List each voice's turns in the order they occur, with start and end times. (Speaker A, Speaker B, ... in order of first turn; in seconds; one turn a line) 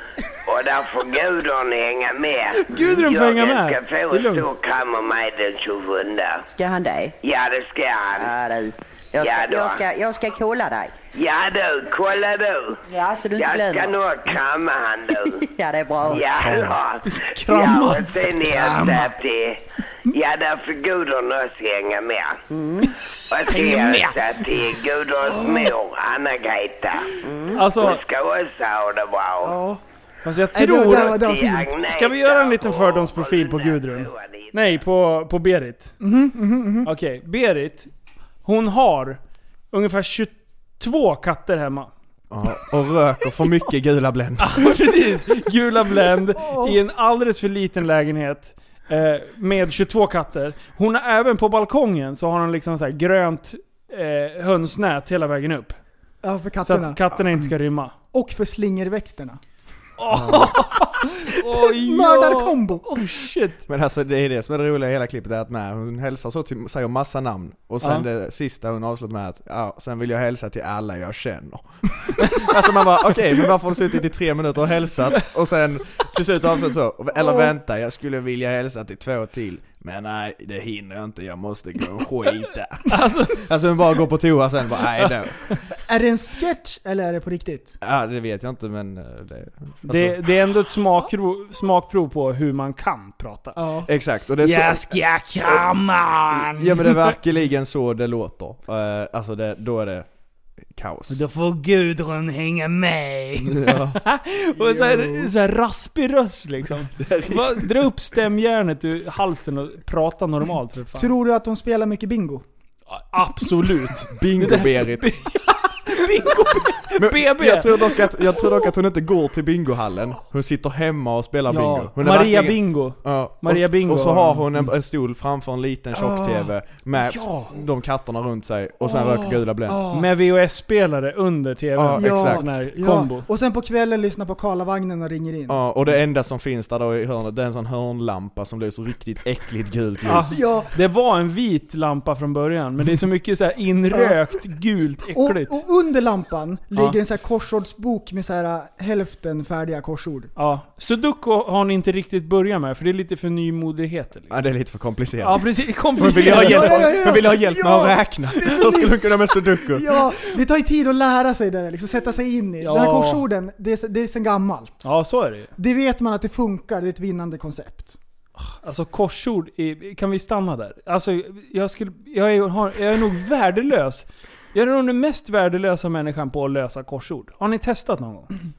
Speaker A: 0.5-6.5
Speaker B: 2.5-4.5
Speaker C: 6.5-7.2
Speaker A: 7.2-8.3
Speaker C: 8.2-11.0
Speaker A: 9.2-9.8
Speaker A: 11.1-12.8
Speaker C: 12.9-14.0
Speaker A: 13.4-15.4
Speaker C: 15.4-16.3
Speaker A: 16.0-22.4
Speaker D: 16.1-16.8
Speaker B: 17.0-19.1
Speaker C: 22.5-22.9
Speaker A: 23.3-29.6
Speaker B: 23.5-24.2
Speaker C: 27.2-27.6
Speaker B: 27.5-28.0
Speaker E: 29.4-29.8
Speaker B: 30.2-31.2
Speaker E: 30.5-31.7
Speaker A: 31.1-34.5
Speaker B: 31.8-36.0
Speaker E: 36.0-36.9
Speaker B: 36.8-37.9
Speaker B: 38.4-41.9
Speaker D: 42.3-44.7
Speaker B: 44.4-55.8
Speaker E: 46.4-46.8
Speaker E: 56.2-57.5
Speaker B: 56.6-58.0
Speaker E: 58.1-59.4
Speaker B: 60.0-63.7
Speaker D: 60.1-60.6
Speaker E: 61.3-63.0
Speaker D: 63.7-85.4
Speaker E: 77.2-77.5
Speaker B: 82.9-83.4
Speaker E: 85.9-87.8
Speaker D: 87.8-90.3
Speaker B: 89.9-93.6
Speaker E: 93.6-93.9
Speaker D: 93.9-95.6
Speaker B: 94.4-97.1
Speaker D: 96.2-100.1
Speaker D: 100.7-101.2
Speaker B: 101.1-111.1
Speaker D: 103.4-104.0
Speaker E: 104.6-105.3
Speaker D: 107.0-107.8
Speaker E: 111.0-112.4
Speaker B: 112.9-118.4
Speaker D: 114.0-115.2
Speaker D: 117.0-129.8
Speaker B: 121.5-124.7
Speaker E: 125.9-127.6
Speaker E: 128.8-130.1
Speaker B: 129.9-133.3
Speaker D: 131.8-132.4
Speaker E: 132.0-135.6
Speaker D: 135.5-140.4
Speaker B: 140.1-145.6
Speaker E: 140.3-140.7
Speaker E: 143.9-144.2
Speaker E: 145.1-150.3
Speaker B: 150.4-154.4
Speaker D: 154.3-160.1
Speaker B: 155.2-157.1
Speaker E: 156.0-164.8
Speaker B: 162.6-163.2
Speaker B: 164.8-165.5
Speaker E: 165.6-168.0
Speaker B: 168.4-178.3